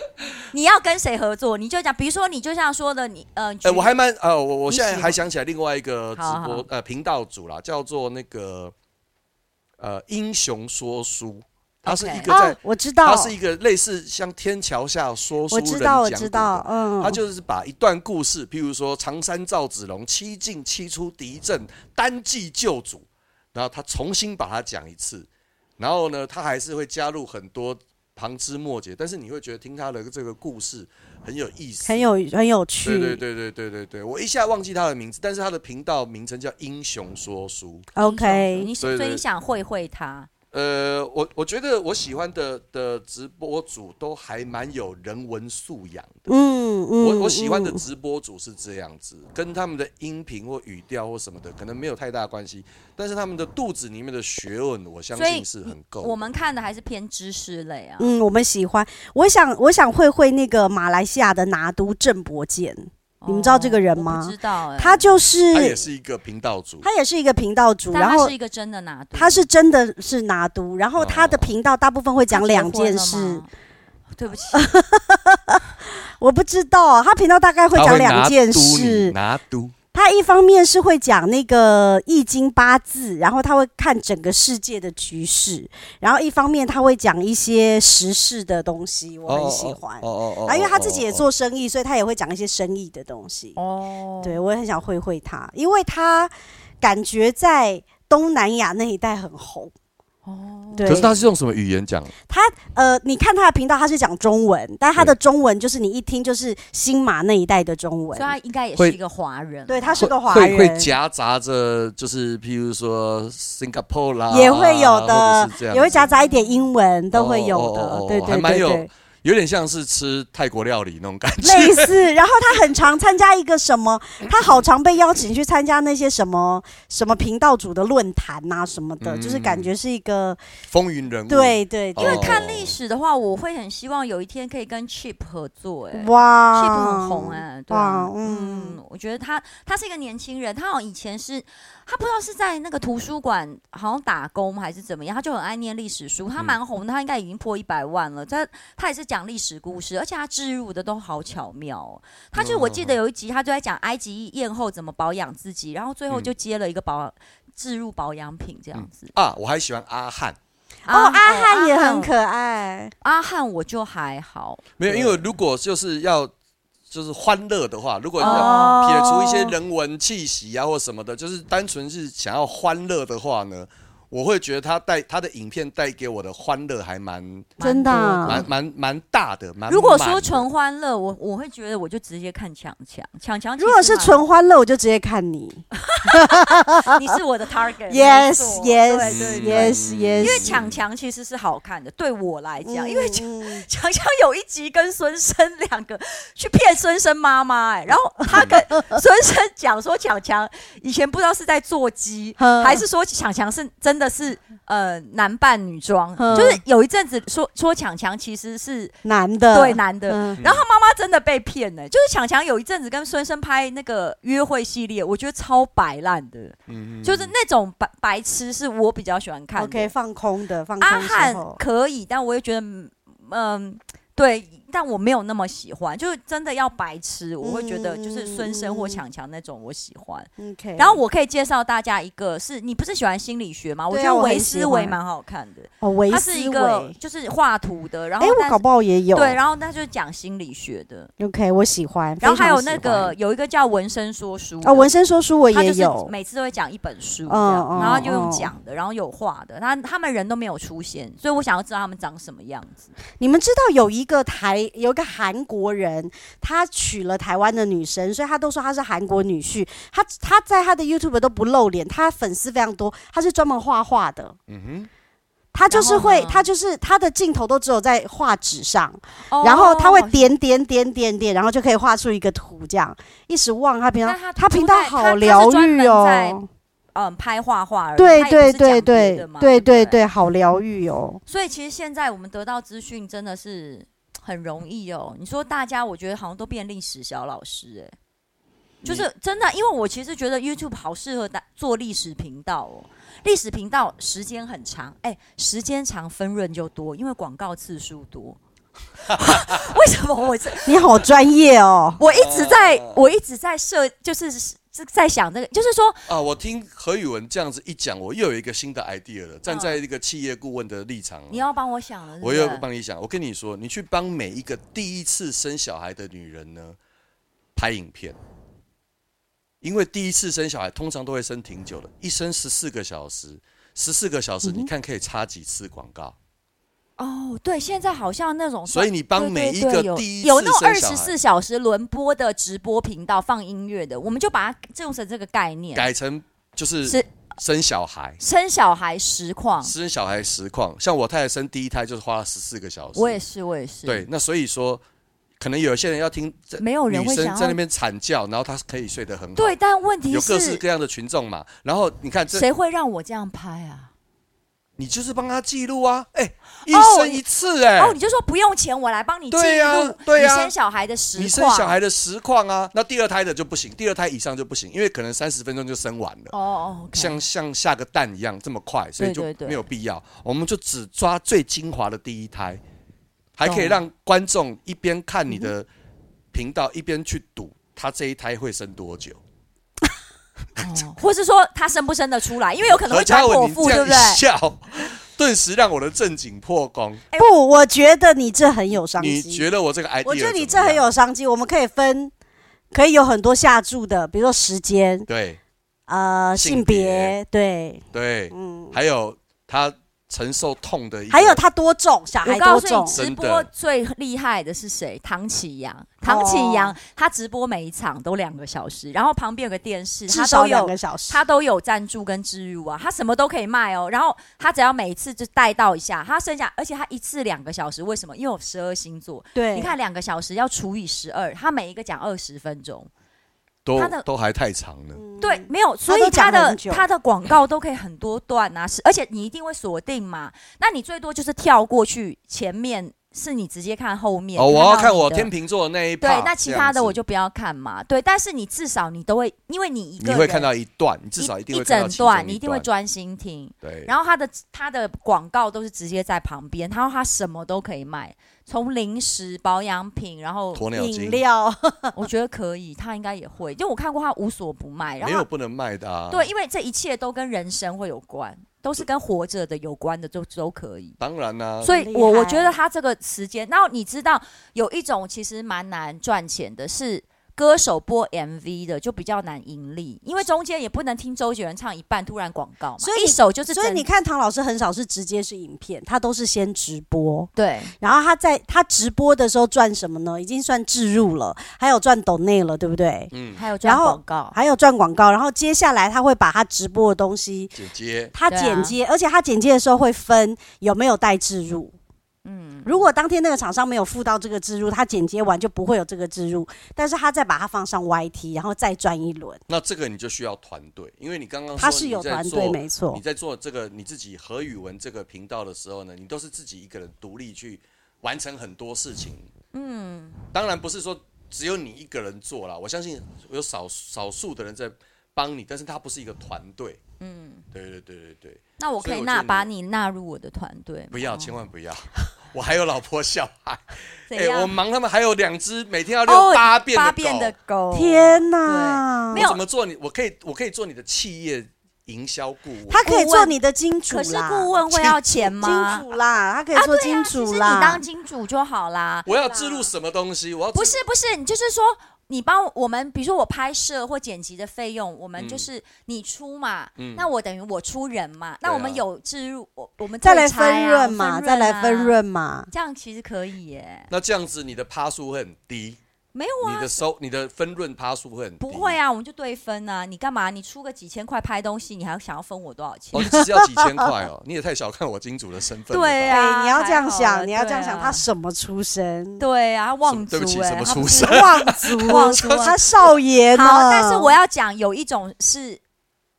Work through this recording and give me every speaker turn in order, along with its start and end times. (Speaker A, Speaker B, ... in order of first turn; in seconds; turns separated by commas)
Speaker A: 0.5-3.9, Speaker B: 3.6-8.7, Speaker A: 4.7-5.2, Speaker A: 6.2-6.6, Speaker B: 9.8-32.1, Speaker A: 11.8-12.3, Speaker C: 12.3-13.3, Speaker C: 15.5-17.2, Speaker C: 31.9-33.2, Speaker B: 32.8-37.9, Speaker C: 37.9-38.7, Speaker A: 38.0-40.3, Speaker B: 38.8-39.2, Speaker B: 40.5-46.2, Speaker C: 46.3-47.8, Speaker B: 47.0-56.1, Speaker A: 55.1-58.1, Speaker C: 58.0-65.8, Speaker A: 63.2-65.0, Speaker B: 65.5-66.8, Speaker C: 66.8-68.3, Speaker A: 67.9-69.5, Speaker C: 69.1-73.4, Speaker B: 71.0-71.5, Speaker A: 72.3-73.5, Speaker A: 74.1-74.7, Speaker C: 74.5-79.1, Speaker B: 77.7-79.7, Speaker C: 79.9-93.5, Speaker B: 89.3-91.2, Speaker A: 93.5-94.4, Speaker C: 94.2-99.7, Speaker A: 100.2-101.1, Speaker C: 100.7-101.2, Speaker B: 100.8-102.1, Speaker C: 102.3-108.3, Speaker A: 108.1-110.1, Speaker C: 109.7-110.9, Speaker B: 110.0-116.0, Speaker C: 114.3-118.9, Speaker A: 115.9-116.7, Speaker B: 117.1-122.0, Speaker C: 121.4-130.4, Speaker B: 129.0-129.7, Speaker B: 130.7-132.7, Speaker C: 131.3-132.4, Speaker A: 132.0-159.1, Speaker C: 135.9-138.8, Speaker B: 152.3-152.9, Speaker B: 158.7-160.4, Speaker A: 160.9-162.1, Speaker C: 160.9-162.9, Speaker A: 163.0-164.7, Speaker B: 164.8-166.3, Speaker C: 164.9-165.1, Speaker B: 166.9-177.5, Speaker A: 168.2-168.9, Speaker C: 168.2-169.6, Speaker A: 177.6-178.5, Speaker C: 177.6-178.4, Speaker B: 178.2-180.4, Speaker A: 179.7-184.2, Speaker C: 183.6-187.0, Speaker A: 185.8-208.9, Speaker C: 187.9-190.5, Speaker B: 189.0-190.7, Speaker C: 192.6-193.7, Speaker B: 198.3-198.6, Speaker C: 198.3-199.0, Speaker C: 202.4-202.8, Speaker C: 206.2-206.6, Speaker C: 209.0-210.4, Speaker A: 209.5-219.9, Speaker B: 210.4-210.6, Speaker B: 216.7-217.3, Speaker C: 219.6-221.6, Speaker A: 220.8-238.6, Speaker C: 227.4-229.0, Speaker C: 230.4-231.0, Speaker C: 233.9-235.0, Speaker C: 235.8-236.9, Speaker C: 238.2-239.4, Speaker A: 239.1-241.1, Speaker C: 241.2-243.1, Speaker A: 242.2-244.9, Speaker C: 244.6-246.1, Speaker A: 245.5-252.9, Speaker C: 247.3-248.5, Speaker C: 253.2-264.4, Speaker B: 264.5-264.9, Speaker C: 265.5-276.5, Speaker A: 265.7-266.5, Speaker A: 269.3-270.3, Speaker A: 274.0-276.4, Speaker A: 276.9-280.0, Speaker C: 278.0-281.2, Speaker A: 281.3-287.9, Speaker A: 288.8-298.4, Speaker A: 299.1-300.9, Speaker B: 299.1-299.6, Speaker C: 300.6-302.0, Speaker A: 302.0-306.0, Speaker B: 302.1-303.0, Speaker B: 306.1-311.4, Speaker A: 309.5-309.8, Speaker A: 311.3-312.6, Speaker B: 312.2-316.8, Speaker B: 317.6-318.2, Speaker B: 319.6-326.1, Speaker C: 324.4-324.7, Speaker A: 327.0-335.9, Speaker B: 328.7-331.1, Speaker B: 335.7-338.2, Speaker A: 338.2-339.7, Speaker B: 339.6-343.2, Speaker A: 342.9-344.1, Speaker B: 343.9-344.8, Speaker B: 345.4-349.6, Speaker A: 346.6-347.6, Speaker A: 349.4-350.6, Speaker B: 350.1-352.4, Speaker A: 352.3-353.9, Speaker B: 354.8-358.0, Speaker A: 356.6-357.2, Speaker A: 357.8-361.7, Speaker B: 359.3-360.5, Speaker B: 361.1-366.3, Speaker A: 366.3-367.2, Speaker B: 366.9-372.6, Speaker A: 369.0-369.6, Speaker B: 373.4-375.7, Speaker A: 373.4-373.8, Speaker B: 376.3-379.2, Speaker A: 380.6-384.2, Speaker B: 382.7-387.0, Speaker C: 387.2-389.4, Speaker B: 389.0-390.9, Speaker C: 390.0-392.1, Speaker C: 392.7-395.1, Speaker B: 395.1-395.4, Speaker C: 395.9-398.8, Speaker B: 396.4-397.1, Speaker B: 397.9-401.4, Speaker C: 401.1-403.0, Speaker A: 402.2-422.9, Speaker B: 402.9-403.5, Speaker C: 406.0-406.8, Speaker C: 410.1-411.2, Speaker C: 419.3-419.7, Speaker B: 423.6-425.0, Speaker A: 423.8-424.0, Speaker C: 424.9-426.8, Speaker A: 425.2-435.3, Speaker B: 434.4-437.0, Speaker A: 436.0-440.5, Speaker B: 440.0-442.7, Speaker A: 441.2-450.6, Speaker B: 443.6-443.9, Speaker B: 450.5-451.2, Speaker C: 450.7-451.9, Speaker A: 451.9-455.2, Speaker B: 455.0-456.3, Speaker A: 456.1-461.0, Speaker B: 461.0-461.7, Speaker A: 461.6-473.9, Speaker C: 461.7-462.6, Speaker C: 472.8-483.1, Speaker A: 477.4-477.7, Speaker B: 483.1-483.4, Speaker A: 483.4-484.4, Speaker C: 483.6-487.5, Speaker B: 487.5-488.1, Speaker C: 488.1-491.7, Speaker A: 488.3-488.7, Speaker A: 492.2-492.8, Speaker C: 492.6-499.4, Speaker B: 499.5-509.3, Speaker C: 501.6-503.0, Speaker A: 509.5-510.2, Speaker B: 510.3-516.8, Speaker A: 517.0-517.4, Speaker B: 517.5-519.5, Speaker A: 518.6-521.3, Speaker B: 520.9-527.3, Speaker A: 524.1-524.5, Speaker A: 526.0-529.4, Speaker C: 527.7-529.2, Speaker B: 529.1-532.8, Speaker C: 532.7-534.6, Speaker A: 532.8-533.3, Speaker A: 533.9-535.8, Speaker C: 535.2-537.8, Speaker A: 536.5-539.6, Speaker B: 539.0-540.8, Speaker A: 540.5-552.0, Speaker B: 545.2-545.5, Speaker B: 546.8-547.1, Speaker B: 548.4-548.8, Speaker C: 550.0-552.5, Speaker A: 552.5-553.9, Speaker B: 553.9-555.8, Speaker A: 556.1-556.8, Speaker B: 556.4-558.8, Speaker A: 558.4-563.2, Speaker B: 562.9-566.2, Speaker C: 563.1-563.9, Speaker A: 565.7-568.0, Speaker C: 566.1-569.2, Speaker A: 569.2-572.5, Speaker B: 569.9-572.8, Speaker C: 570.8-574.1, Speaker A: 573.3-575.6